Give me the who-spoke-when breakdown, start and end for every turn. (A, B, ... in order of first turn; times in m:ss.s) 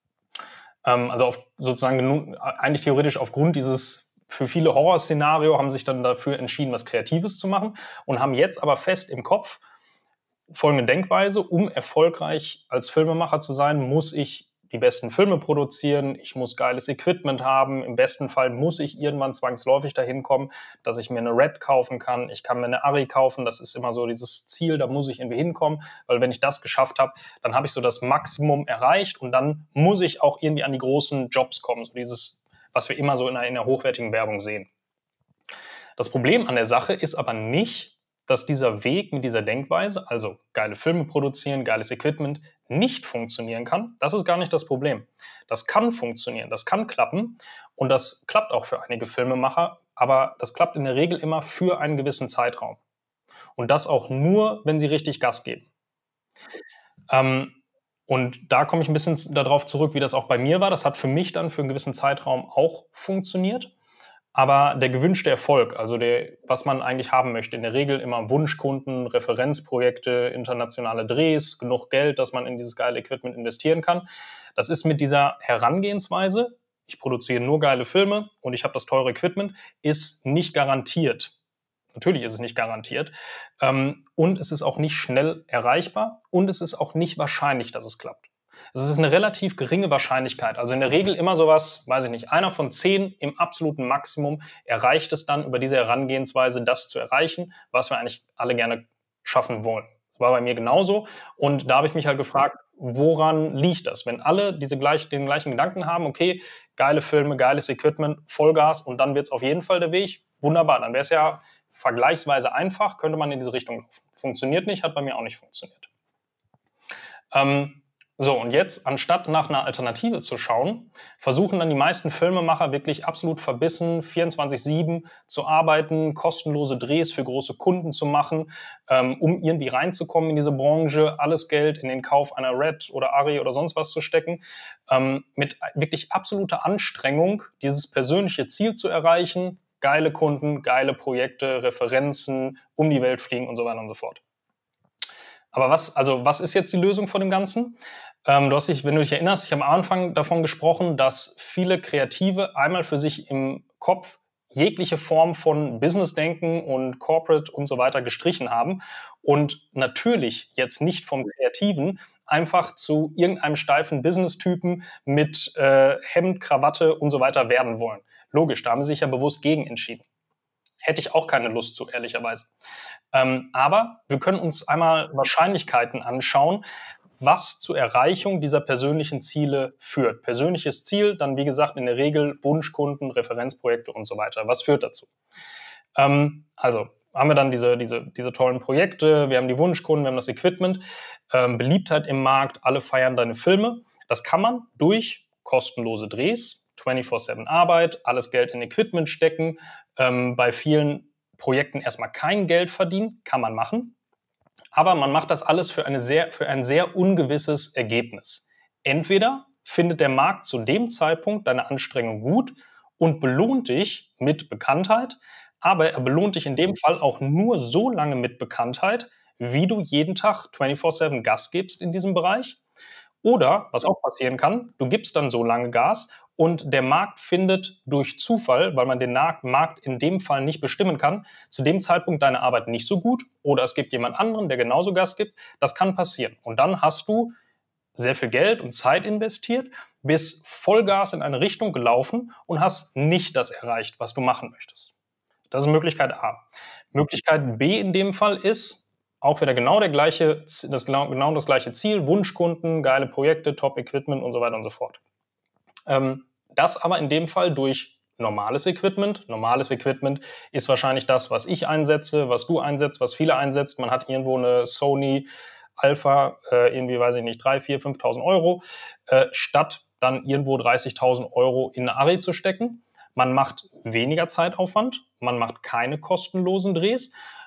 0:00.8-0:09.6 A
0:10.5-0:34.7 A
0:36.0-0:52.8 A
0:53.6-0:55.7 A
0:57.1-0:57.5 A
0:58.1-1:03.7 A
1:04.3-1:21.3 A
1:21.9-1:55.9 A
1:57.3-2:24.2 A
2:25.5-2:50.0 A
2:50.8-2:52.5 A
2:53.1-2:56.6 A
2:57.2-3:05.1 A
3:06.0-3:23.9 A
3:24.7-3:42.6 A
3:43.2-3:57.3 A
3:57.9-4:04.9 A
4:05.5-4:15.0 A
4:15.9-4:25.3 A
4:25.8-4:37.1 A